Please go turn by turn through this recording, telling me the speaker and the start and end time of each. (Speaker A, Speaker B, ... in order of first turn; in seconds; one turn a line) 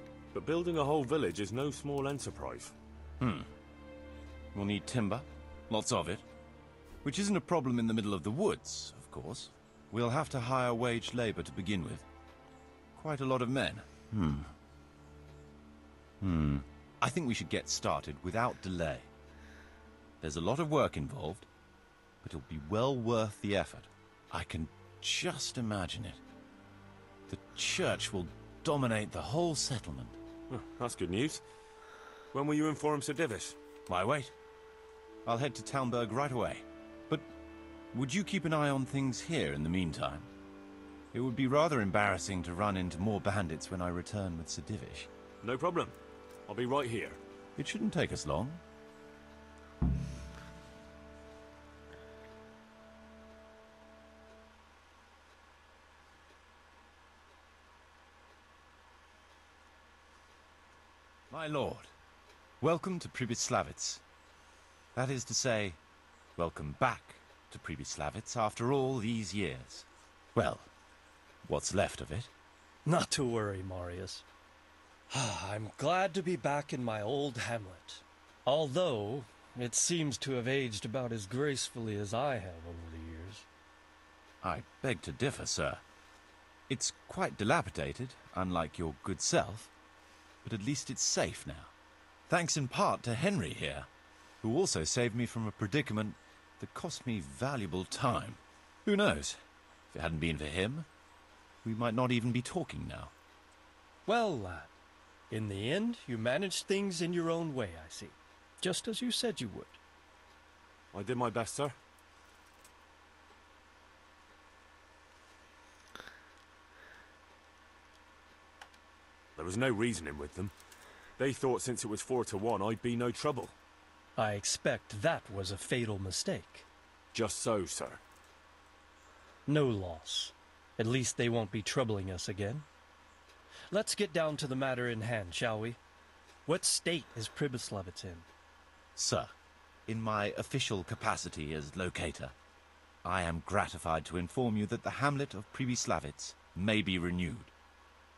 Speaker A: 0.3-2.7
Speaker B: 3.2-3.5
Speaker B: 4.5-6.2
Speaker B: 7.0-12.1
Speaker B: 12.9-14.5
Speaker B: 16.2-19.1
Speaker B: 20.2-21.5
Speaker B: 22.2-26.2
Speaker B: 27.3-30.2
Speaker A: 30.5-31.4
Speaker A: 32.3-33.6
Speaker B: 33.9-34.3
Speaker B: 35.2-37.2
Speaker B: 37.9-40.3
Speaker B: 41.1-45.1
Speaker A: 45.4-45.9
Speaker A: 46.5-47.2
Speaker B: 47.6-48.6
Speaker B: 61.3-61.9
Speaker B: 62.6-64.0
Speaker B: 64.9-65.8
Speaker B: 66.4-70.7
Speaker B: 71.4-72.3
Speaker C: 72.8-74.2
Speaker C: 75.1-83.5
Speaker B: 84.4-85.8
Speaker B: 86.7-89.7
Speaker B: 90.4-91.7
Speaker B: 92.3-93.9
Speaker B: 94.4-99.4
Speaker B: 99.9-100.9
Speaker B: 101.6-103.1
Speaker C: 104.1-104.8
Speaker C: 105.3-109.8
Speaker A: 110.9-111.7
Speaker A: 119.4-120.5
Speaker A: 121.2-123.5
Speaker C: 124.2-126.7
Speaker A: 127.1-128.0
Speaker C: 129.5-132.7
Speaker C: 133.7-135.8
Speaker C: 136.5-138.3
Speaker B: 139.0-139.3
Speaker B: 139.9-142.3
Speaker B: 143.0-147.5